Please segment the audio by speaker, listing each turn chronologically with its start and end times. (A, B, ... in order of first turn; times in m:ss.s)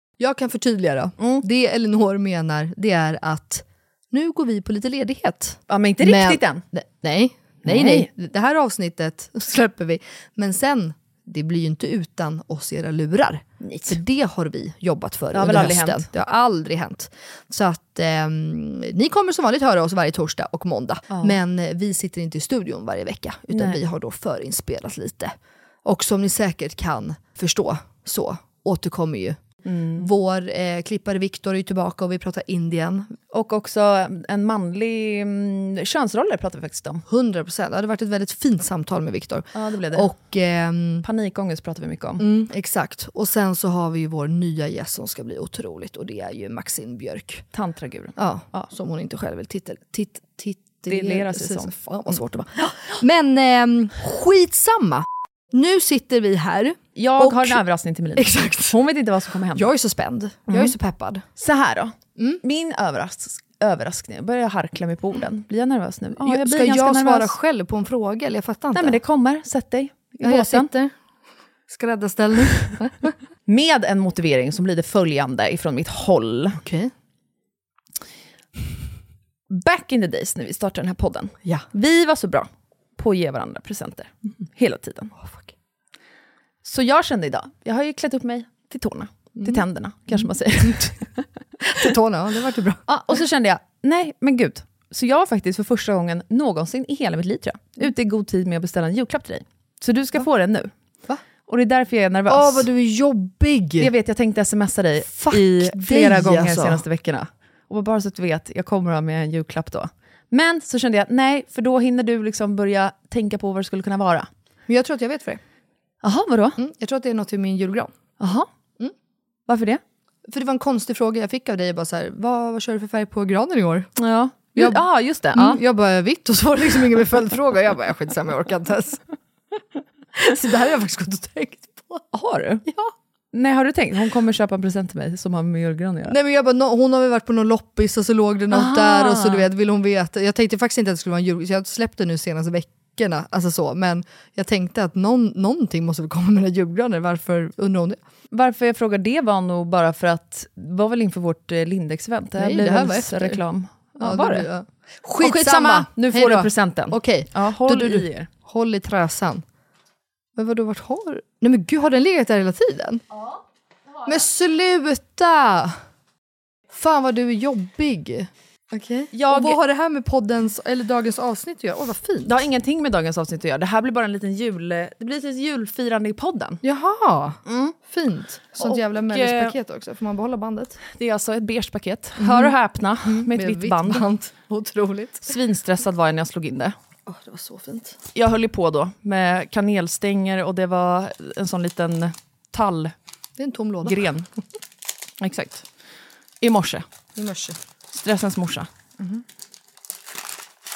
0:00.2-0:33.2 A
0:05.7-0:06.6 B
0:07.6-0:08.1 B
0:13.6-0:14.0 B
0:15.3-0:16.0 B
0:23.5-0:23.8 B
0:29.6-0:30.1 B
0:33.3-0:37.0 B
0:37.1-0:41.0 A
0:39.5-0:40.1 B
0:41.0-0:42.2 B
0:42.2-0:47.4 A
0:47.5-0:48.6 B
0:48.2-0:57.6 A
0:50.9-0:51.7 B
0:57.0-0:59.7 B
0:58.2-0:58.8 A
0:59.5-1:01.2 A
1:00.5-1:00.7 B
1:01.4-1:07.3 B
1:02.2-1:02.4 A
1:06.2-1:09.0 A
1:08.7-1:10.7 B
1:10.2-1:10.9 A
1:11.7-1:13.1 A
1:13.5-1:16.6 B
1:16.6-1:16.9 A
1:19.5-1:25.1 B
1:25.2-1:25.5 A
1:26.6-1:31.3 B
1:29.4-1:29.6 A
1:31.6-1:32.9 A
1:32.9-1:40.7 B
1:41.4-1:42.7 B
1:42.3-1:43.9 A
1:43.8-1:54.3 B
1:45.1-1:46.8 A
1:54.7-1:55.4 A
1:56.0-1:56.6 B
1:56.6-1:57.9 A
1:58.2-1:58.5 B
1:59.5-1:59.8 B
2:00.3-2:03.9 A
2:04.0-2:05.6 B
2:04.6-2:09.0 A
2:10.1-2:12.1 A
2:12.1-2:12.7 B
2:12.7-2:12.9 A
2:13.3-2:16.2 B
2:16.1-2:28.0 A
2:18.5-2:19.5 B
2:28.3-2:34.5 B
2:32.4-2:33.4 A
2:34.0-2:39.4 A
2:35.2-2:38.3 B
2:40.4-2:43.0 A
2:44.0-2:45.8 A
2:46.7-2:52.4 A
2:49.1-2:49.6 B
2:52.2-2:56.6 B
2:56.6-3:00.8 A
2:57.5-2:57.8 B
2:58.6-2:59.6 B
3:00.9-3:04.1 B
3:02.2-3:05.4 A
3:05.2-3:06.8 B
3:07.1-3:08.0 A
3:08.1-3:12.9 B
3:13.4-3:14.1 A
3:13.8-3:14.3 B
3:15.2-3:15.7 B
3:16.4-3:16.8 B
3:17.2-3:17.6 A
3:17.9-3:18.7 B